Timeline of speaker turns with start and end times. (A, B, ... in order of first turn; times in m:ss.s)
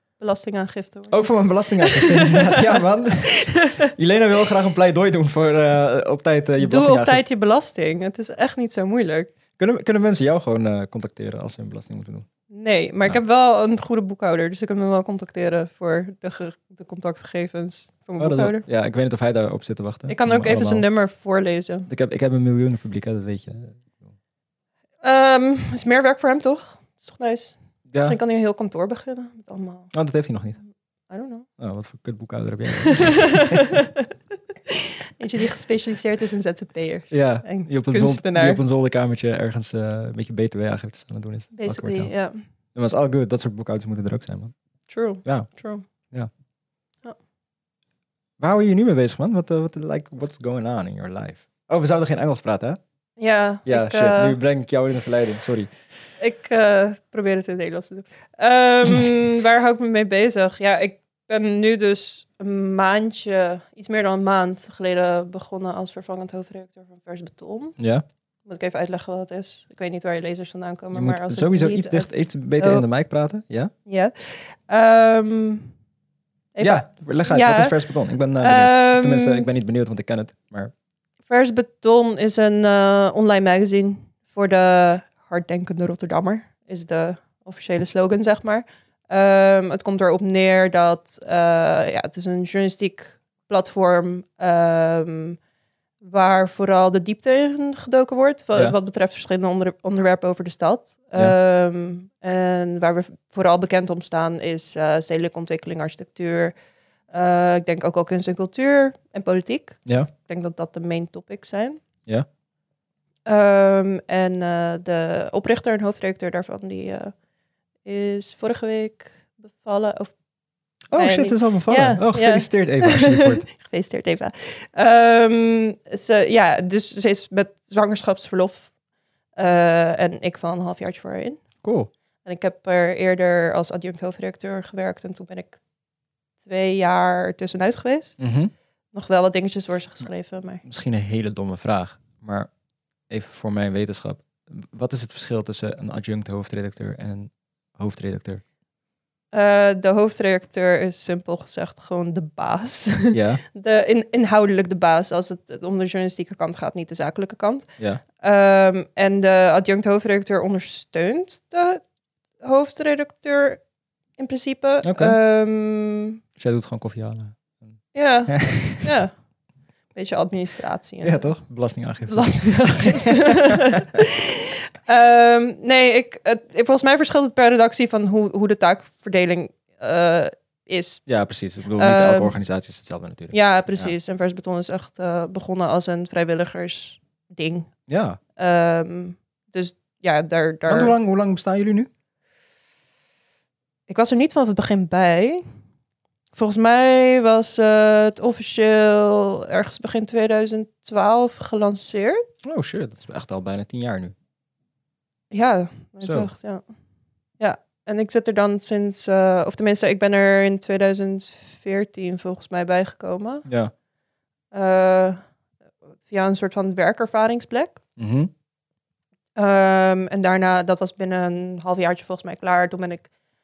0:00.2-0:03.9 A
0:01.1-0:07.2 B
0:06.6-0:09.3 A
0:09.6-0:12.3 B
0:12.5-0:18.6 A
0:18.2-0:20.8 B
0:20.1-0:21.9 A
0:21.9-0:24.0 B
0:25.0-0:29.9 A
0:27.9-0:28.2 B
0:29.9-0:30.6 B
0:31.1-0:31.5 A
0:31.6-0:33.7 B
0:32.8-0:34.1 A
0:34.7-0:38.6 A
0:37.1-0:42.1 B
0:41.5-0:42.4 A
0:42.7-0:44.5 B
0:44.9-0:45.8 A
0:48.4-0:52.8 B
0:53.2-0:54.4 A
0:53.6-0:55.7 B
0:56.2-1:07.8 A
1:07.8-1:08.0 B
1:08.4-1:12.8 A
1:10.9-1:13.7 B
1:13.8-1:15.7 A
1:16.5-1:19.4 A
1:16.6-1:20.7 B
1:21.3-1:35.4 A
1:36.0-1:46.5 A
1:47.1-1:51.8 A
1:53.2-1:57.1 A
1:57.8-2:00.1 A
2:00.9-2:03.4 B
2:00.9-2:08.7 A
2:09.4-2:11.4 A
2:11.6-2:11.9 B
2:12.2-2:15.6 A
2:16.4-2:18.2 A
2:18.2-2:18.5 B
2:18.9-2:20.6 A
2:20.6-2:22.5 B
2:23.1-2:28.4 B
2:29.3-2:37.7 A
2:33.1-2:33.4 B
2:38.2-2:41.8 A
2:42.4-2:43.6 A
2:44.2-2:46.2 A
2:44.8-2:45.2 B
2:46.4-2:47.8 B
2:47.9-2:49.1 A
2:48.3-2:48.9 B
2:49.9-2:51.4 A
2:51.0-2:53.5 B
2:52.1-3:01.0 A
3:01.0-3:03.9 B
3:01.8-3:02.3 A
3:03.3-3:07.7 A
3:07.9-3:08.2 B
3:08.4-3:11.0 A
3:10.7-3:11.9 B
3:13.9-3:15.4 A
3:16.4-3:22.3 A
3:22.4-3:24.1 B
3:25.3-3:26.6 A
3:26.0-3:26.3 B
3:27.4-3:33.4 A
3:33.4-3:33.7 B
3:34.5-3:35.2 A
3:36.0-3:37.8 A
3:38.0-3:38.3 B
3:39.4-3:43.1 A